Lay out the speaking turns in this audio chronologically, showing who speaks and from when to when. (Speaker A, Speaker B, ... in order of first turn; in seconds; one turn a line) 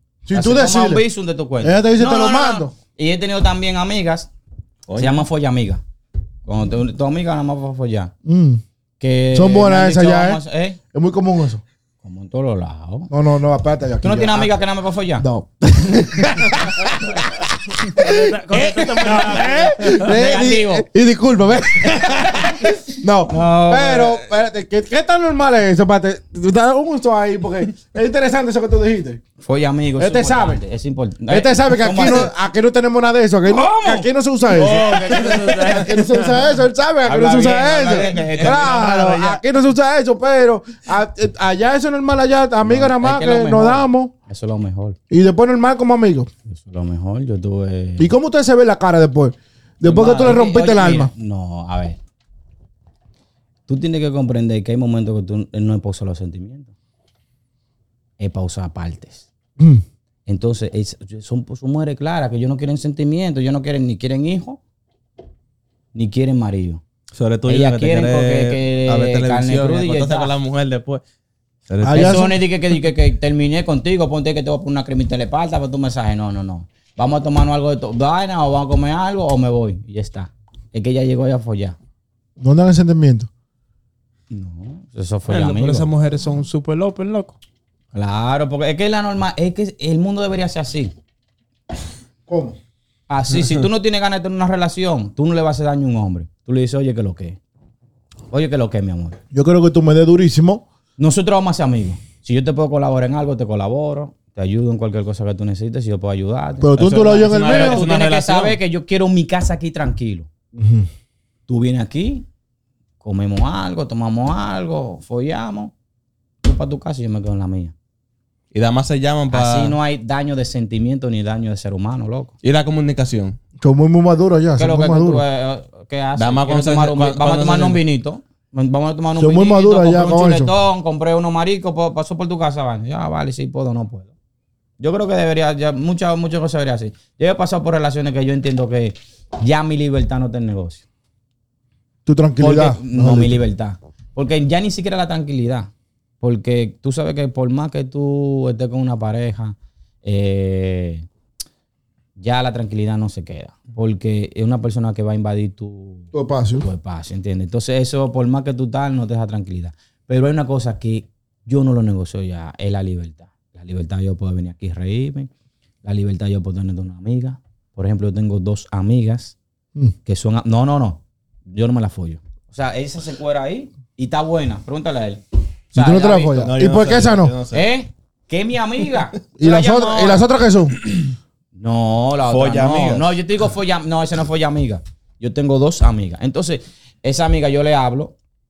Speaker A: 0.3-1.0
Speaker B: 0.3-4.3
Speaker A: 1.6-2.7
Speaker C: 4.9-5.2
Speaker B: 5.0-5.8
Speaker B: 6.5-8.1
Speaker A: 8.2-8.6
Speaker B: 9.0-10.8
Speaker A: 9.3-10.4
Speaker A: 10.9-11.6
Speaker B: 12.0-13.1
Speaker A: 13.1-14.5
Speaker B: 14.0-15.3
Speaker A: 15.2-29.2
Speaker D: 18.0-20.2
Speaker B: 19.9-20.9
Speaker B: 23.3-24.2
Speaker B: 29.4-32.3
Speaker A: 30.0-30.6
Speaker A: 31.3-44.1
Speaker B: 33.5-34.1
Speaker D: 34.5-36.5
Speaker C: 34.6-35.7
Speaker C: 37.1-39.4
Speaker B: 37.6-38.8
Speaker B: 42.6-45.0
Speaker A: 45.1-46.3
Speaker B: 46.5-48.1
Speaker A: 48.0-51.1
Speaker B: 49.8-52.0
Speaker B: 53.7-56.7
Speaker B: 58.2-59.3
Speaker A: 59.6-59.8
Speaker B: 60.3-64.6
Speaker B: 66.0-66.8
Speaker C: 67.2-71.0
Speaker B: 67.5-70.3
Speaker C: 71.7-72.2
Speaker A: 71.8-72.4
Speaker B: 71.9-81.8
Speaker A: 82.4-83.3
Speaker B: 84.3-85.9
Speaker D: 85.3-87.4
Speaker B: 87.9-90.9
Speaker A: 92.3-92.6
Speaker B: 93.1-97.4
Speaker B: 98.3-99.2
Speaker A: 99.3-100.6
Speaker B: 101.0-110.3
Speaker A: 106.6-107.9
Speaker C: 106.8-108.6
Speaker A: 110.5-110.9
Speaker B: 111.5-112.3
Speaker B: 113.0-115.7
Speaker B: 116.4-117.7
Speaker C: 118.5-119.8
Speaker B: 119.3-122.3
Speaker C: 122.4-123.4
Speaker A: 123.6-125.2
Speaker B: 124.6-134.1
Speaker C: 126.2-127.8
Speaker A: 129.2-130.5
Speaker B: 134.8-140.8
Speaker A: 142.1-143.4
Speaker B: 142.4-151.1
Speaker B: 152.2-165.3
Speaker A: 156.1-156.7
Speaker B: 165.8-169.4
Speaker B: 170.1-176.5
Speaker A: 175.8-177.3
Speaker C: 176.4-177.7
Speaker B: 177.5-180.2
Speaker A: 179.4-180.8
Speaker B: 181.6-188.2
Speaker C: 182.2-183.1